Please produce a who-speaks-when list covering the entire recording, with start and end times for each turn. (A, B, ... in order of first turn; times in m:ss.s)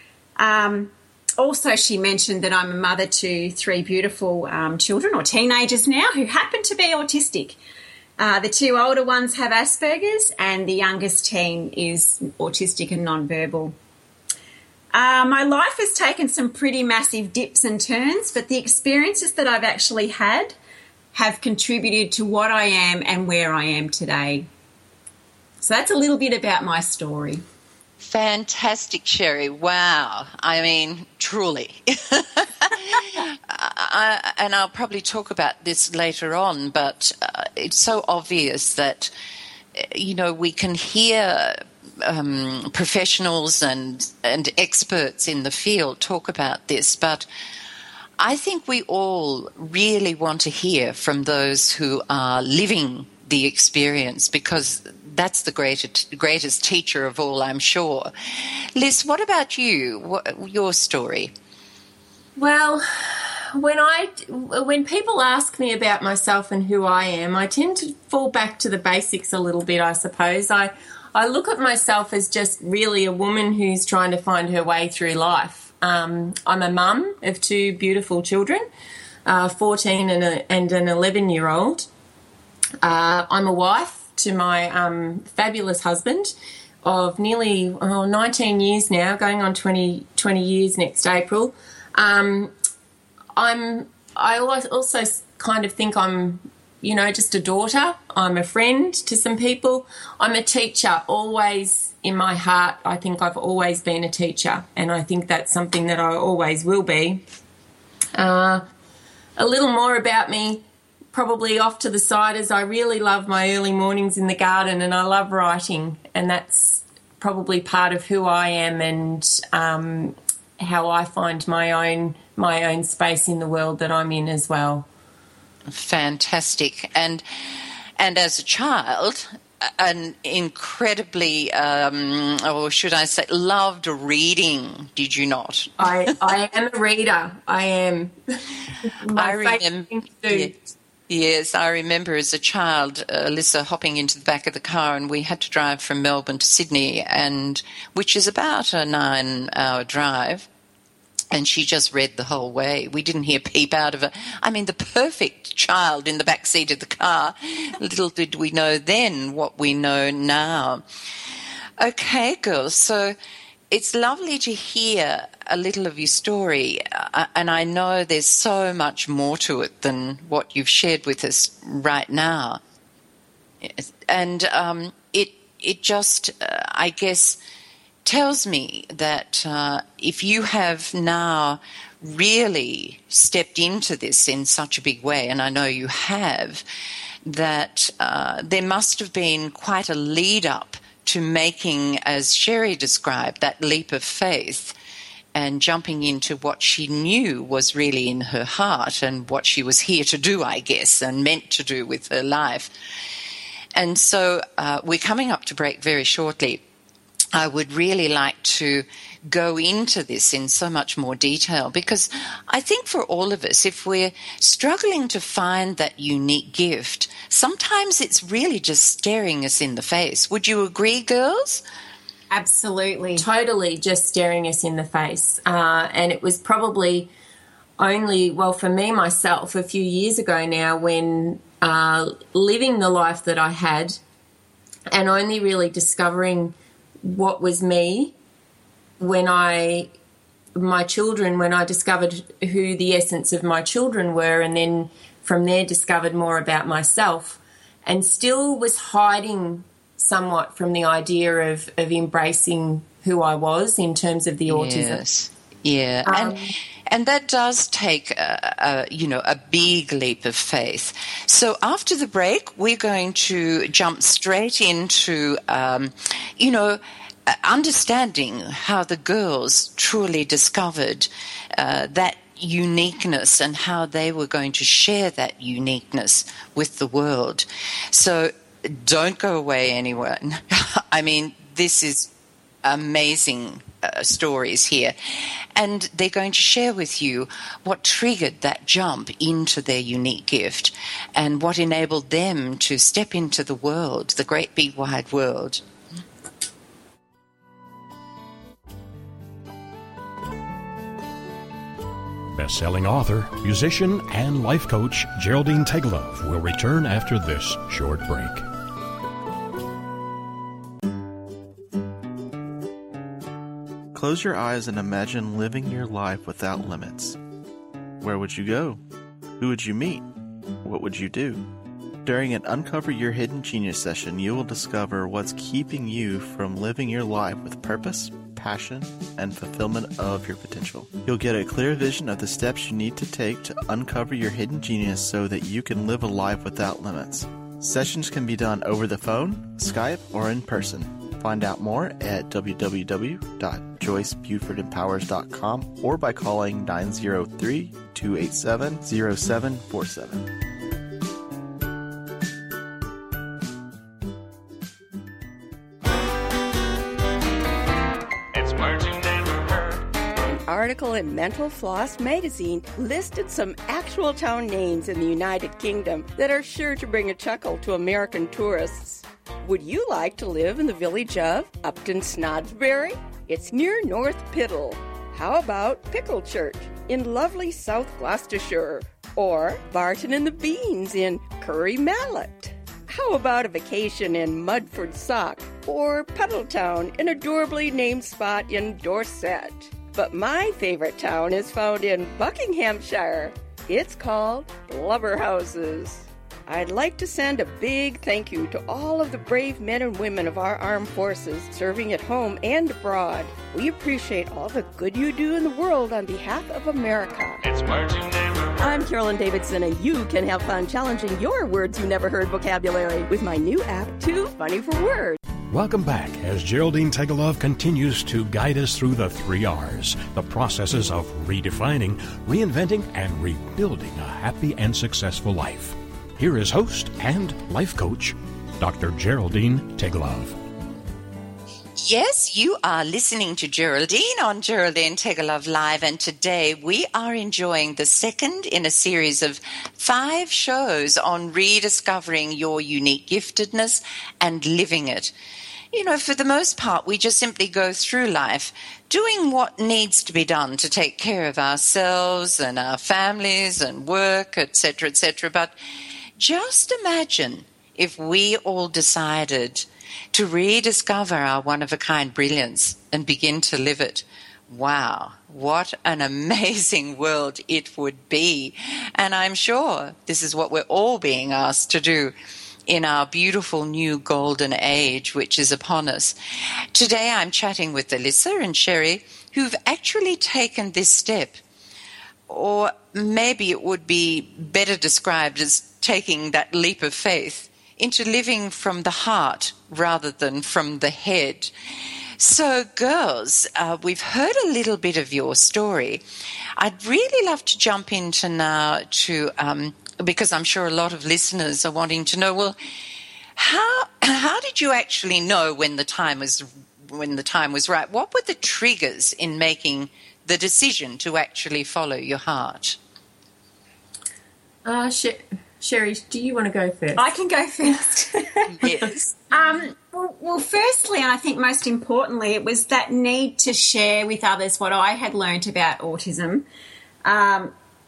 0:00.4-0:07.6 A
0:08.2-0:13.7 A
0:14.9-0:20.6 A
0:21.1-0:24.5 A
0:25.6-0:27.4 A
0:28.0-0:39.1 B
0:39.7-0:47.3 B
0:48.2-1:01.3 B
1:02.4-1:18.6 C
1:19.2-1:21.9 C
1:22.8-1:32.5 C
1:33.4-1:47.2 C
1:48.1-1:48.6 C
1:49.4-2:04.9 C
2:05.7-2:07.2 B
2:08.0-2:15.9 B
2:15.8-2:18.2 C
2:18.8-2:20.6 C
2:19.2-2:20.5 B
2:21.1-2:30.5 B
2:31.3-2:40.8 B
2:41.8-2:43.2 B
2:43.7-2:52.6 B
2:53.6-2:57.4 B
2:58.0-3:06.6 B
3:07.2-3:14.7 B
3:15.3-3:22.7 B
3:23.7-3:26.6 B
3:27.3-3:41.6 B
3:42.3-3:43.2 A
3:43.2-3:47.1 C
3:47.8-3:54.0 C
3:54.9-3:58.1 C
3:59.0-3:59.9 C
4:00.5-4:15.0 C
4:14.5-4:42.1 B
4:16.0-4:16.5 C
4:42.6-4:55.6 B
5:02.3-5:08.4 D
5:13.9-5:17.2 E
5:18.0-5:18.8 E
5:19.4-5:20.1 E
5:20.6-5:21.5 E
5:22.0-5:50.3 E
5:58.4-6:55.2 F
6:55.5-7:10.4 D
7:11.8-7:25.1 B
7:25.7-7:35.5 B
7:36.2-7:52.1 B
7:52.7-7:56.2 B
7:56.7-8:01.4 B
8:02.3-8:11.5 B
8:12.2-8:16.0 B
8:16.6-8:22.6 B
8:23.4-8:32.8 B
8:34.6-8:37.1 C
8:37.0-8:38.5 A
8:38.5-8:39.1 B
8:39.3-8:46.5 A
8:47.0-8:47.5 A